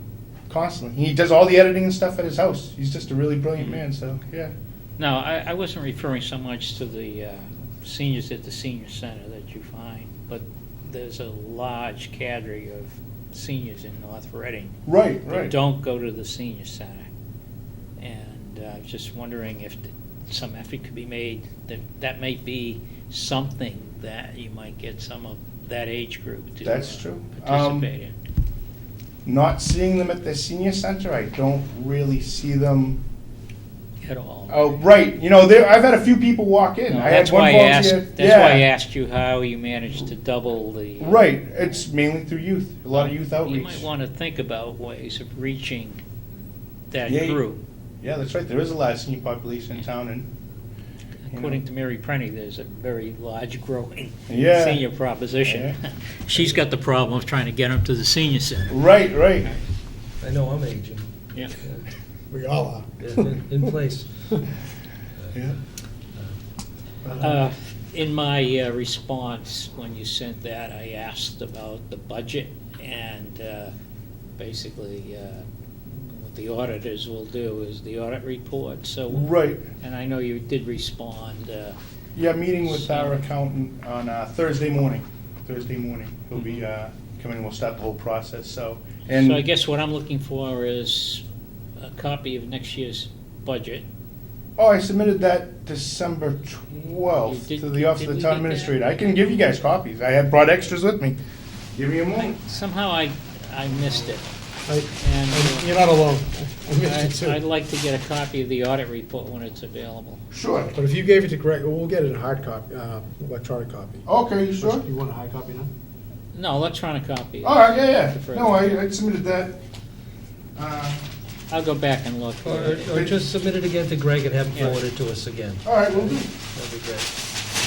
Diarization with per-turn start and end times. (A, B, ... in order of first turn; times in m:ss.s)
0:00.5-0:04.5 A
0:05.0-0:17.1 B
0:14.9-0:15.5 A
0:18.0-0:28.1 B
0:26.6-0:27.9 A
0:29.2-0:33.0 A
0:34.0-0:34.8 B
0:34.5-0:38.6 A
0:36.9-0:41.2 B
0:41.0-0:43.9 A
0:42.9-0:46.0 B
0:46.9-0:47.6 B
0:47.1-0:47.4 A
0:48.0-0:50.3 A
0:51.3-0:58.8 B
0:51.3-0:51.6 A
0:54.3-0:54.8 A
0:55.4-0:55.8 A
0:58.7-0:59.5 A
1:00.2-1:01.9 C
1:02.3-1:02.9 D
1:03.0-1:04.5 C
1:05.3-1:05.6 A
1:07.2-1:13.7 B
1:14.4-1:19.3 B
1:19.1-1:19.6 A
1:19.8-1:21.8 B
1:22.2-1:29.4 A
1:22.6-1:23.2 B
1:29.1-1:31.2 B
1:31.8-1:33.8 B
1:34.6-1:41.2 A
1:37.3-1:38.8 B
1:41.8-1:42.4 A
1:42.2-1:44.2 B
1:44.7-1:47.4 D
1:45.0-1:45.7 B
1:46.8-1:50.2 B
1:50.3-1:50.7 A
1:50.7-1:54.1 D
1:54.1-1:54.8 A
1:54.6-1:55.7 D
1:56.3-1:58.8 B
1:57.4-1:59.6 A
2:00.6-2:01.0 A
2:01.5-2:03.0 B
2:02.4-2:07.1 C
2:02.8-2:03.2 A
2:04.5-2:04.8 B
2:05.6-2:06.3 A